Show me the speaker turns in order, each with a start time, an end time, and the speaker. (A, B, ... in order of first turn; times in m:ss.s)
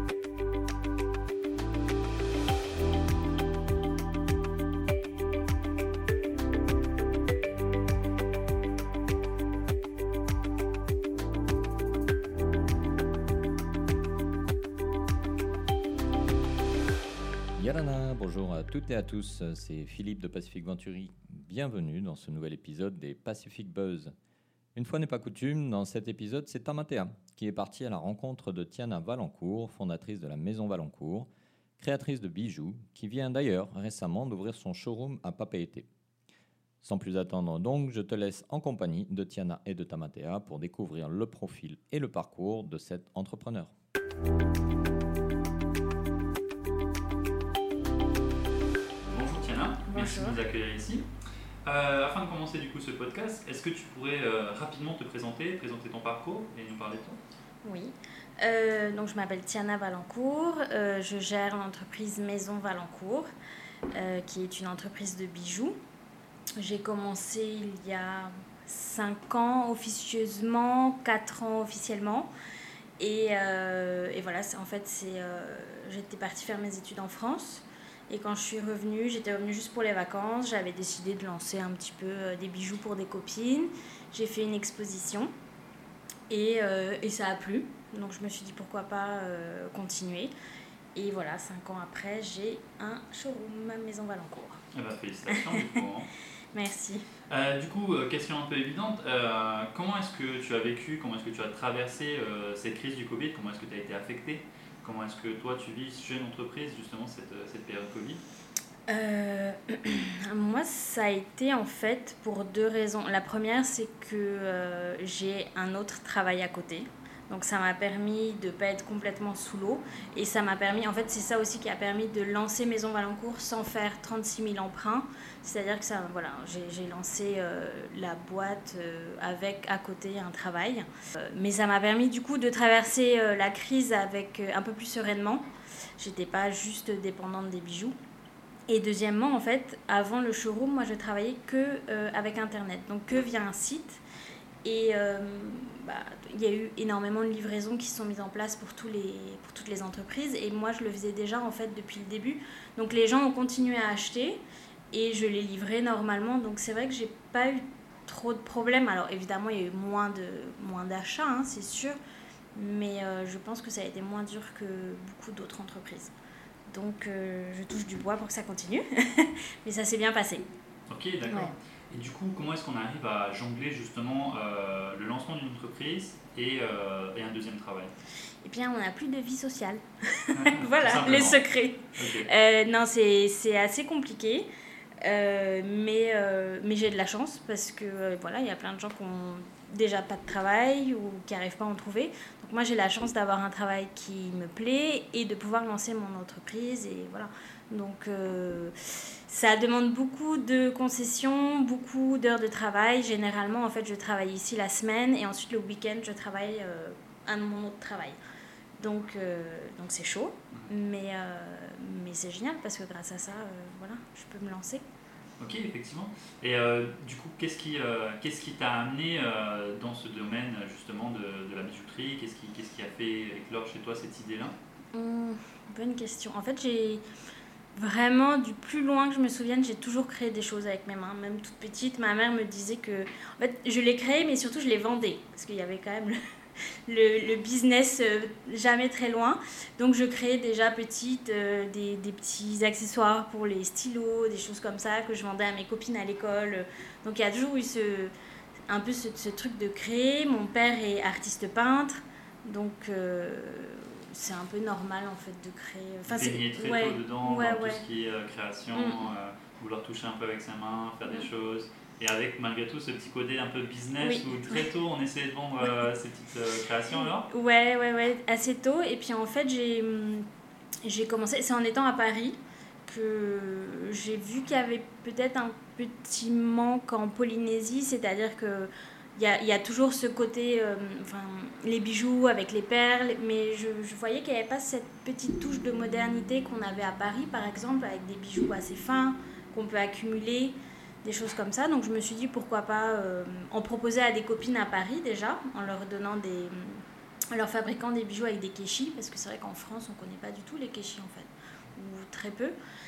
0:17.6-0:24.1 A
0:24.7-0:35.9 A
0:36.8-0:43.7 A
0:49.0-0:51.1 B
0:49.9-0:50.4 C
0:51.6-0:57.2 B
0:57.6-1:03.3 C
1:03.9-1:05.8 C
1:06.6-1:12.3 C
1:13.0-1:25.3 C
1:26.3-1:30.3 C
1:31.0-1:34.6 C
1:34.7-1:36.1 B
1:35.3-1:35.8 C
1:36.5-1:37.0 C
1:37.3-1:48.2 B
1:48.9-2:15.4 C
2:16.0-2:18.0 C
2:18.7-2:24.0 C
2:24.6-2:34.4 C
2:34.9-2:42.0 C
2:42.6-2:46.1 C
2:46.7-2:50.5 C
2:50.9-2:57.9 B
2:51.3-2:51.5 C
2:58.4-3:04.5 C
3:00.3-3:01.4 B
3:02.0-3:02.3 B
3:05.0-3:18.7 C
3:19.3-3:28.2 C
3:28.8-3:34.8 C
3:35.4-3:44.6 B
3:44.9-3:47.0 C
3:47.8-3:56.2 C
3:56.9-4:08.1 C
4:08.7-4:17.8 C
4:16.1-4:27.3 B
4:18.7-4:19.1 C
4:24.0-4:24.6 C
4:27.0-4:30.2 C
4:30.8-5:02.5 C